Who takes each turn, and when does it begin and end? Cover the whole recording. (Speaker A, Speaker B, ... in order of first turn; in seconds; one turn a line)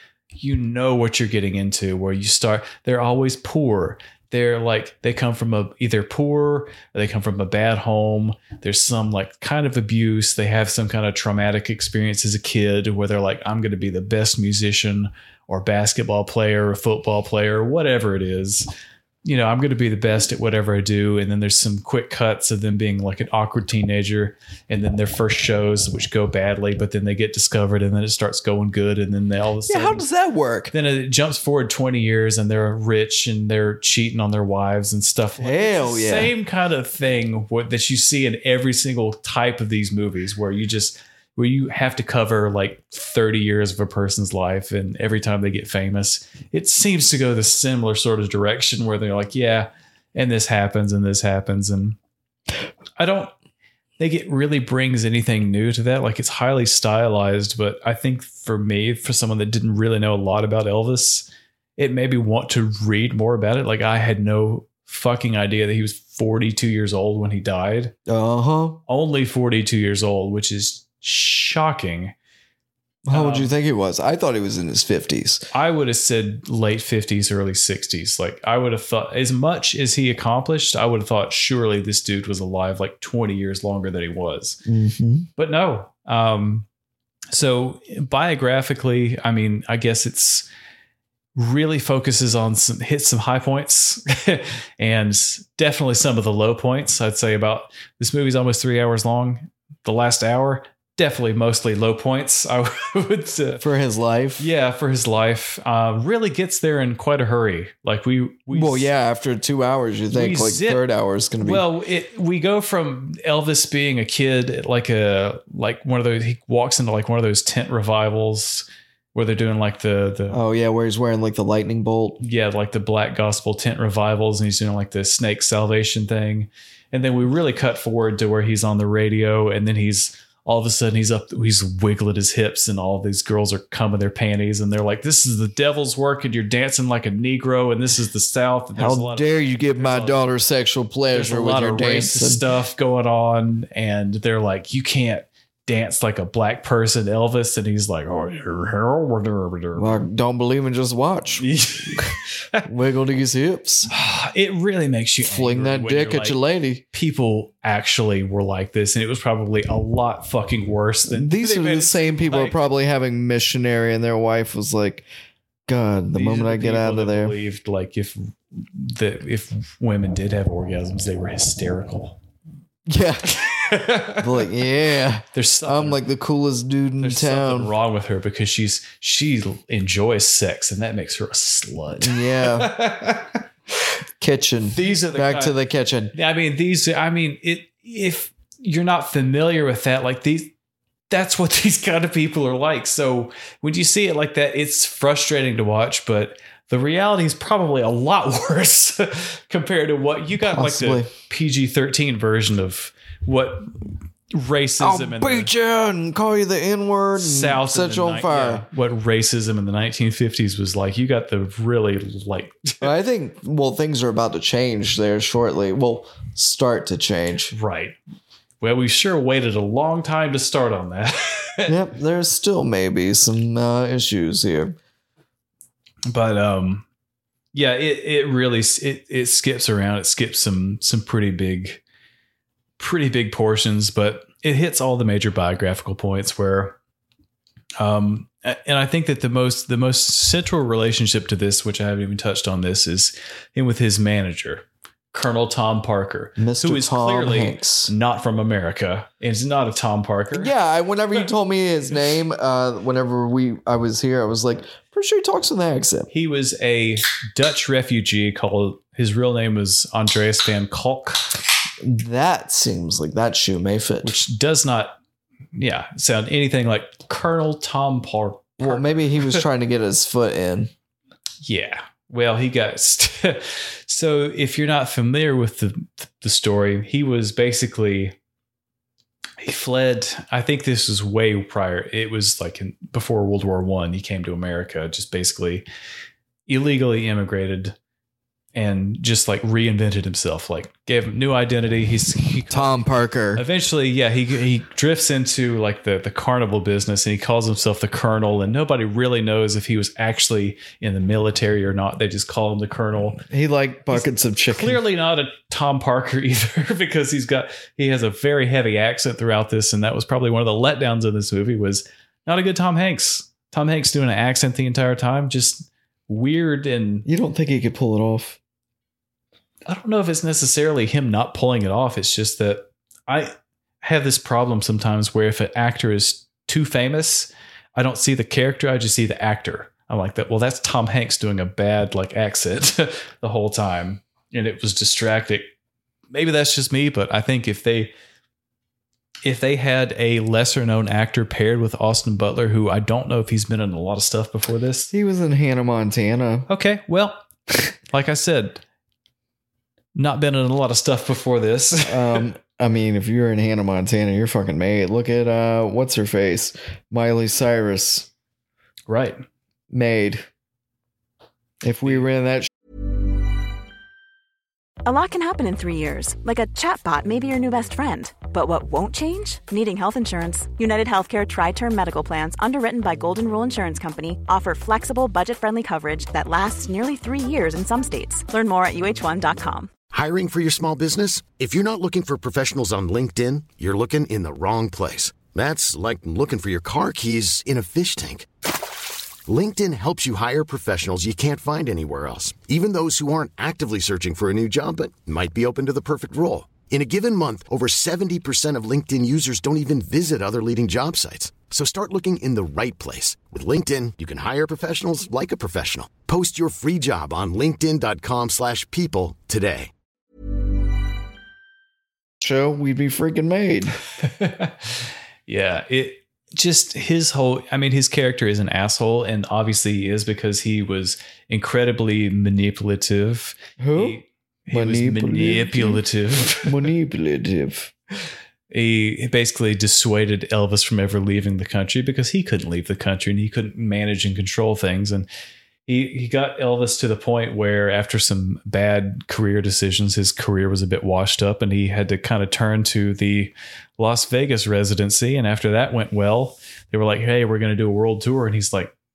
Speaker A: 0.4-18.7
Speaker A: 19.2-30.0
Speaker B: 29.7-30.7
Speaker A: 30.7-52.0
Speaker B: 35.4-36.3
Speaker A: 53.0-53.3
Speaker A: 54.0-67.9
Speaker B: 68.1-68.8
Speaker A: 68.9-72.1
Speaker B: 73.0-75.5
Speaker A: 73.1-73.5
Speaker A: 75.5-84.6
Speaker B: 84.7-85.3
Speaker A: 85.4-86.7
Speaker A: 87.3-90.5
Speaker A: 91.4-103.6
Speaker B: 103.6-104.5
Speaker A: 104.4-108.9
Speaker B: 108.5-111.6
Speaker A: 110.1-110.8
Speaker A: 111.4-120.4
Speaker B: 120.3-122.2
Speaker A: 122.2-140.2
Speaker B: 138.8-142.4
Speaker A: 141.1-150.1
Speaker B: 149.8-151.4
Speaker A: 151.4-152.7
Speaker B: 152.6-153.9
Speaker A: 153.9-156.4
Speaker B: 155.2-156.8
Speaker A: 156.9-162.6
Speaker B: 161.1-165.1
Speaker B: 165.7-167.4
Speaker A: 166.1-172.2
Speaker B: 172.9-173.4
Speaker A: 173.3-174.5
Speaker B: 174.2-177.7
Speaker A: 175.3-176.0
Speaker A: 177.0-183.4
Speaker B: 182.0-182.7
Speaker B: 184.2-186.1
Speaker A: 184.7-185.6
Speaker A: 186.1-190.5
Speaker A: 191.1-205.5
Speaker B: 200.4-201.1
Speaker B: 204.8-208.7
Speaker A: 207.2-212.9
Speaker B: 212.8-217.6
Speaker A: 217.5-218.0
Speaker A: 218.6-221.8
Speaker B: 221.7-224.8
Speaker A: 226.1-226.8
Speaker A: 227.5-231.8
Speaker A: 232.8-236.8
Speaker A: 237.8-250.5
Speaker B: 246.4-247.9
Speaker B: 250.3-256.1
Speaker A: 256.1-261.4
Speaker B: 261.8-264.1
Speaker A: 264.0-265.0
Speaker A: 265.6-269.4
Speaker B: 268.6-270.7
Speaker A: 271.4-278.2
Speaker A: 279.4-285.7
Speaker A: 286.5-287.8
Speaker A: 288.6-303.2
Speaker B: 292.5-293.4
Speaker B: 303.3-304.8
Speaker A: 303.9-317.1
Speaker B: 317.1-318.4
Speaker A: 319.7-335.5
Speaker A: 336.1-337.9
Speaker A: 339.2-344.9
Speaker B: 344.9-346.5
Speaker A: 346.5-347.2
Speaker A: 347.9-348.6
Speaker A: 349.9-352.2
Speaker B: 351.8-358.1
Speaker A: 358.9-359.2
Speaker B: 359.7-360.3
Speaker B: 361.6-362.5
Speaker C: 364.9-379.7
Speaker D: 379.9-388.3
Speaker D: 389.3-409.7
Speaker B: 412.2-413.8
Speaker A: 414.0-426.7
Speaker B: 423.6-424.0
Speaker B: 424.5-425.8
Speaker B: 426.4-427.7
Speaker A: 428.5-435.1
Speaker A: 435.7-448.7